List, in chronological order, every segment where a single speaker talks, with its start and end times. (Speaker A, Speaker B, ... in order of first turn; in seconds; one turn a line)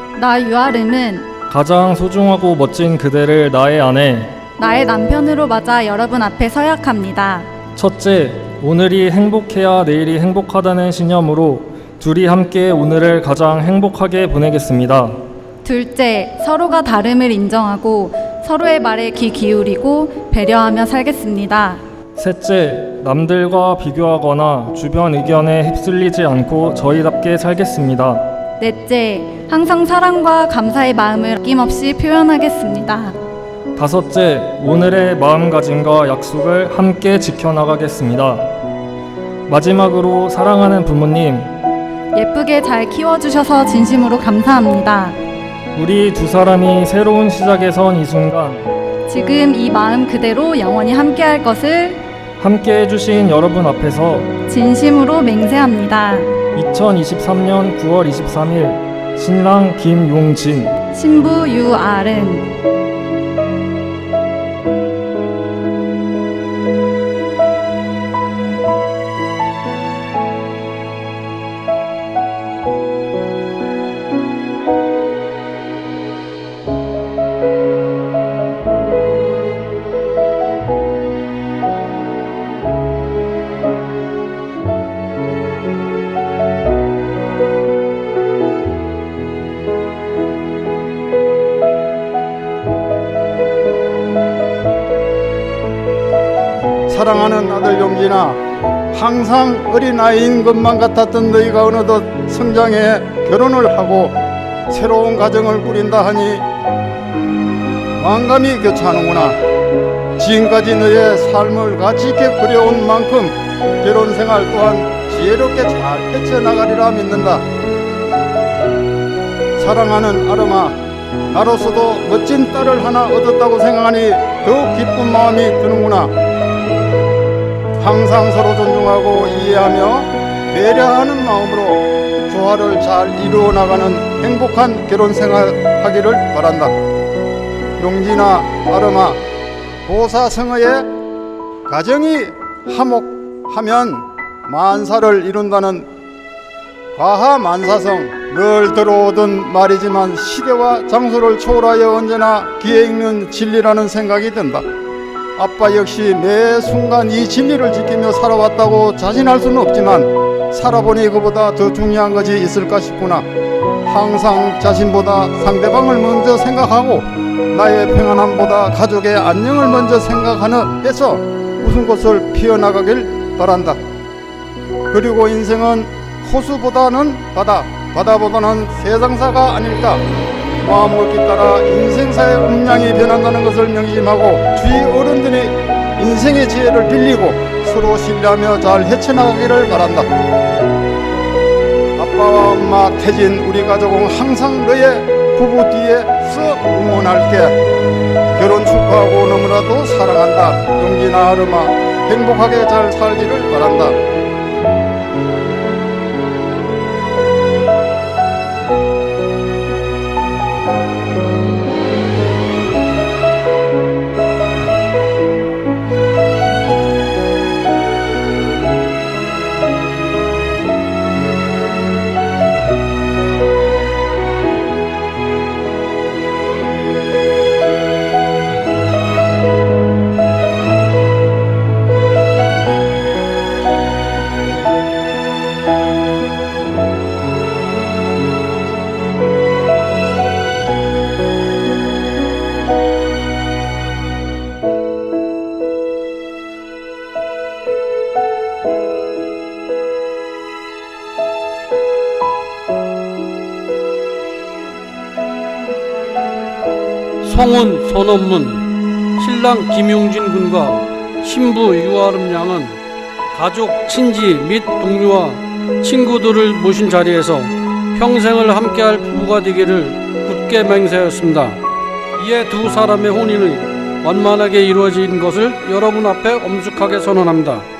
Speaker A: 0.1-1.3
Speaker B: 1.5-4.3
Speaker A: 4.6-7.5
Speaker B: 7.8-15.1
Speaker A: 15.6-21.8
Speaker B: 22.2-28.1
Speaker A: 28.6-33.2
Speaker B: 33.8-38.4
Speaker B: 39.5-41.5
Speaker A: 42.1-45.1
Speaker B: 45.7-48.5
Speaker A: 49.1-52.0
Speaker B: 52.4-54.2
Speaker A: 54.5-56.3
Speaker B: 56.5-60.6
Speaker A: 60.9-62.5
Speaker C: 96.9-98.4
Speaker C: 98.9-104.2
Speaker C: 104.7-106.5
Speaker C: 108.0-109.4
Speaker C: 110.2-117.4
Speaker C: 119.6-120.8
Speaker C: 121.3-126.1
Speaker C: 127.8-136.7
Speaker C: 137.8-139.2
Speaker C: 139.8-140.9
Speaker C: 141.7-145.9
Speaker C: 146.9-154.6
Speaker C: 155.3-163.2
Speaker C: 163.8-173.8
Speaker C: 174.9-180.0
Speaker C: 180.6-190.1
Speaker C: 192.0-197.6
Speaker C: 198.3-204.0
Speaker D: 257.2-262.8
Speaker D: 263.3-271.6
Speaker D: 272.1-277.7